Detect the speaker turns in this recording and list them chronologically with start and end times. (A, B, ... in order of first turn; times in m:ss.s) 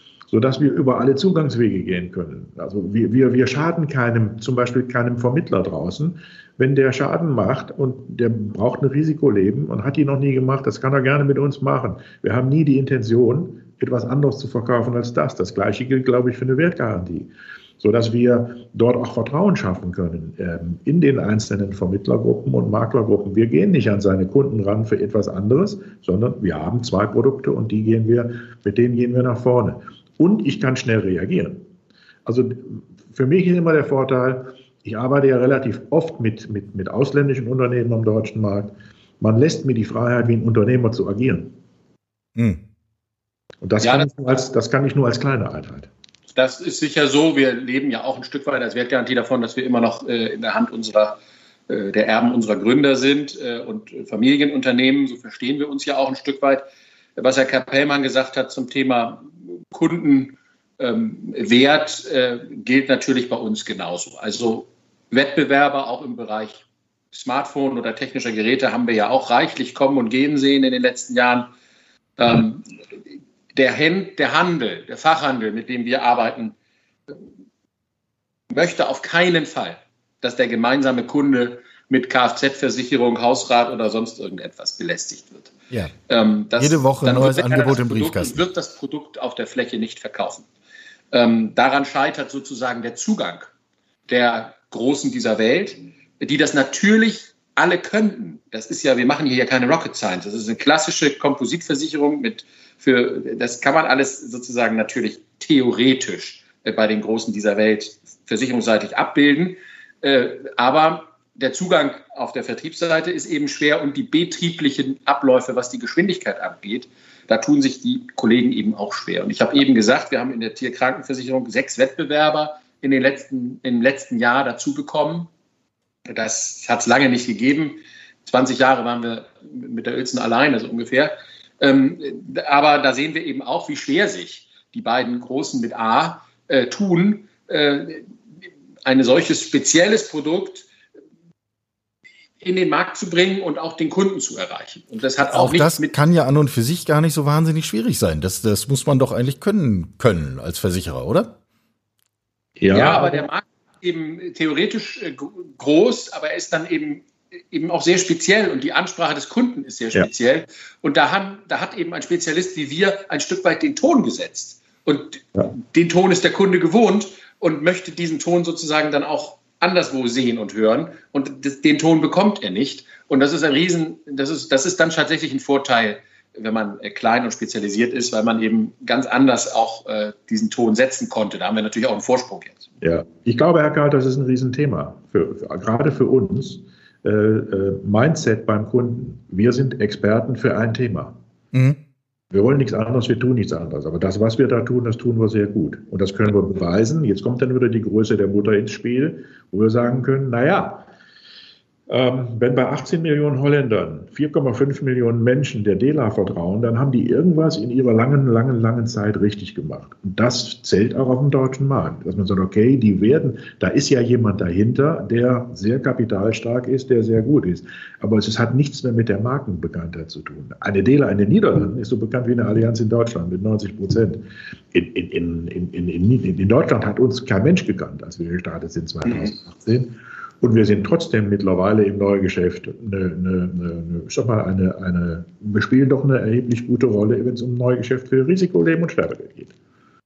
0:00.3-0:31.7 A
0:32.2-0:41.6 A
0:42.4-0:42.6 B
0:43.6-0:45.9 A
0:43.8-0:44.1 C
0:46.3-0:56.6 C
0:57.2-1:11.5 C
1:12.2-1:12.7 C
1:13.5-1:16.6 C
1:18.5-1:25.5 C
1:26.1-1:30.5 C
1:26.6-1:28.5 B
1:31.1-1:33.5 C
1:34.1-2:05.3 C
2:06.1-2:18.1 C
2:18.8-2:20.7 C
2:22.4-2:26.0 C
2:25.2-2:31.4 B
2:32.6-2:33.3 A
2:32.7-3:02.7 C
3:02.8-3:11.2 A
3:11.5-3:11.8 B
3:12.3-3:20.9 A
3:21.9-3:59.5 A